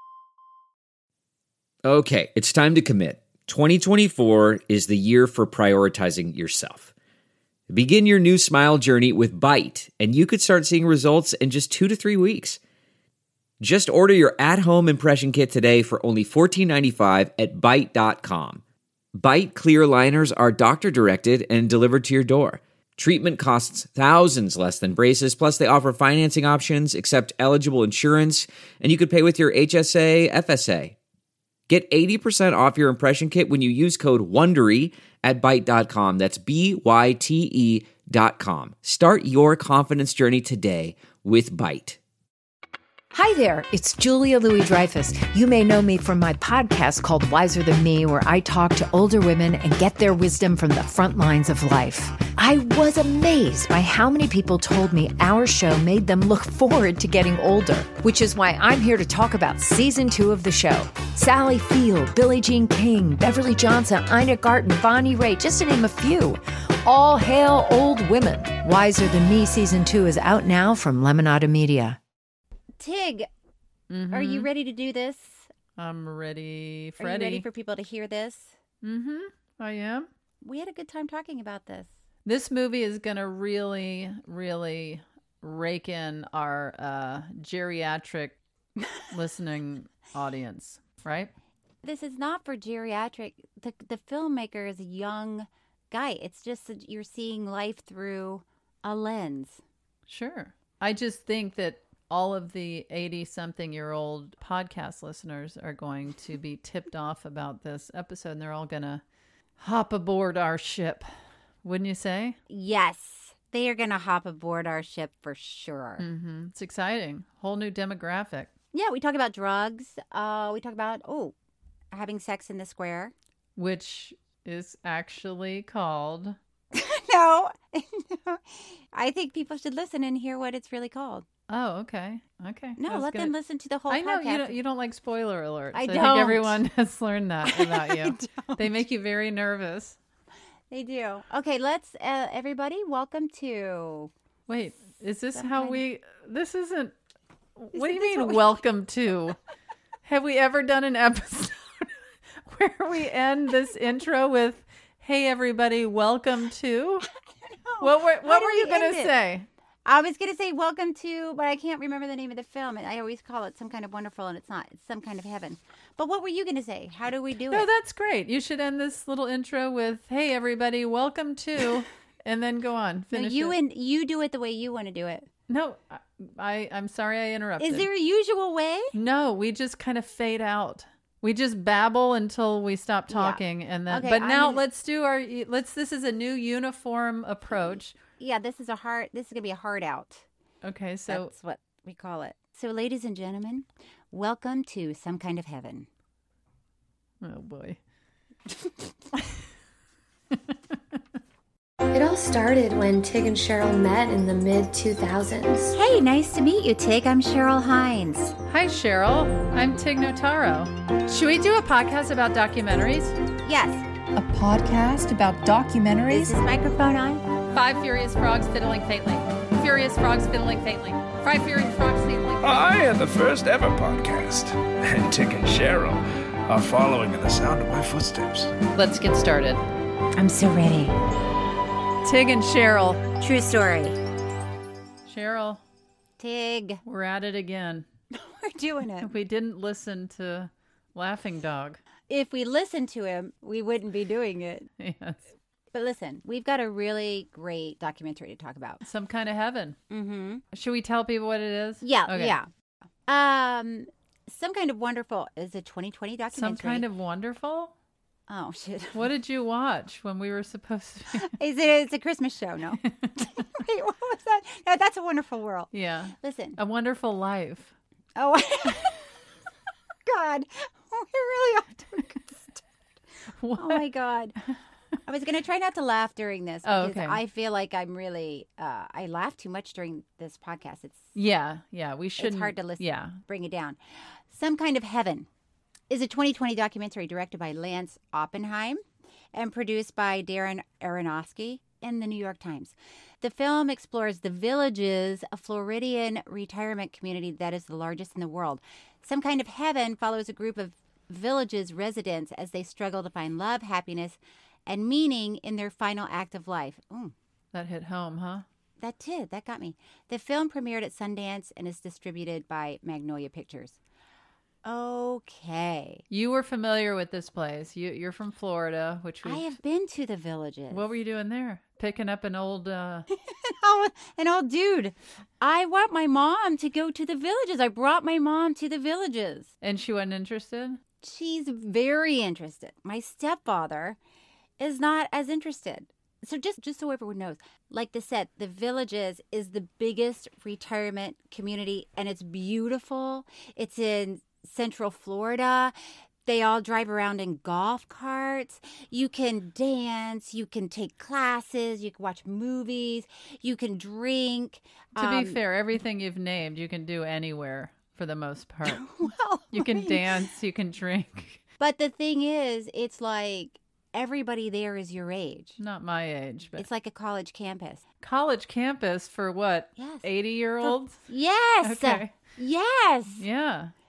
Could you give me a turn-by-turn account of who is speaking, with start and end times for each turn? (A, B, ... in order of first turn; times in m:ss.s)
0:01.8-0:06.9 A
0:07.7-0:12.6 A
0:13.6-0:18.6 A
0:19.2-0:31.0 A
0:31.7-0:42.0 A
0:43.1-1:12.0 B
1:12.8-1:13.3 C
1:13.9-1:14.5 D
1:14.1-1:15.5 C
1:15.8-1:17.5 D
1:17.0-1:18.6 C
1:18.8-1:20.1 D
1:20.4-1:21.9 C
1:22.3-1:28.4 D
1:29.1-1:31.3 D
1:31.8-1:39.6 C
1:40.1-1:49.0 D
1:49.6-1:51.1 D
1:51.6-1:52.4 D
1:52.5-1:56.0 C
1:56.0-1:58.5 D
1:58.7-2:01.3 C
2:01.9-2:03.1 C
2:03.6-2:06.4 D
2:06.7-2:11.2 C
2:11.5-2:13.3 D
2:12.8-2:14.6 C
2:13.9-2:20.0 D
2:15.7-2:16.6 C
2:17.4-2:18.8 C
2:20.7-2:24.1 C
2:24.5-2:26.9 D
2:25.4-2:25.8 C
2:27.6-2:29.4 D
2:27.8-2:28.6 C
2:30.0-2:31.9 D
2:32.4-2:37.1 D
2:37.5-2:39.1 C
2:37.8-2:39.5 D
2:39.9-2:47.7 C
2:47.5-2:53.6 D
2:53.1-2:55.3 C
2:55.5-2:57.9 D
2:57.6-2:58.9 C
2:58.9-3:08.0 D
3:03.1-3:04.6 C
3:07.5-3:10.2 C
3:10.6-3:11.3 D
3:11.1-3:15.9 C
3:17.2-3:17.8 D
3:21.9-3:25.8 E
3:25.7-3:28.3 C
3:28.5-3:33.2 D
3:33.4-3:33.8 C
3:34.2-3:36.2 B
3:36.1-3:37.2 C
3:37.5-3:42.8 D
3:42.4-3:48.6 F
3:48.7-3:49.6 D
3:50.2-3:51.0 C
3:52.0-3:53.0 D
3:53.2-3:54.0 C
3:55.1-3:55.6 D
3:56.2-3:56.8 C
3:56.8-3:57.9 D
3:58.1-3:59.1 C
3:59.0-4:01.8 D
4:02.1-4:04.7 C
4:04.8-4:05.2 D
4:05.7-4:08.8 C
4:08.8-4:09.8 D
4:09.9-4:10.4 C
4:10.5-4:12.4 D
4:11.8-4:12.5 C
4:13.1-4:16.9 C
4:16.3-4:17.7 D
4:18.3-4:19.1 C
4:19.0-4:21.3 D
4:21.2-4:26.6 C
4:25.7-4:27.7 D
4:28.2-4:29.0 C
4:30.1-4:32.6 C
4:33.4-4:33.9 D
4:33.6-4:34.4 C
4:35.1-4:41.1 C
4:36.6-4:37.2 D
4:41.2-4:43.2 D
4:42.2-4:45.3 C
4:45.9-5:07.1 C
5:07.5-5:08.4 D
5:08.8-5:13.8 C
5:14.6-5:16.0 C
5:16.1-5:19.4 D
5:19.2-5:20.9 C
5:20.7-5:23.1 D
5:23.3-5:29.5 C
5:29.6-5:30.8 D
5:31.0-5:34.0 C
5:34.6-5:55.4 C
5:55.0-5:58.9 D
5:58.7-6:00.1 C
5:59.5-6:01.4 D
6:01.6-6:05.6 C
6:05.6-6:06.7 D
6:06.6-6:07.8 C
6:08.0-6:11.0 D
6:09.8-6:10.1 C
6:10.6-6:13.2 C
6:11.6-6:12.1 D
6:13.2-6:13.7 D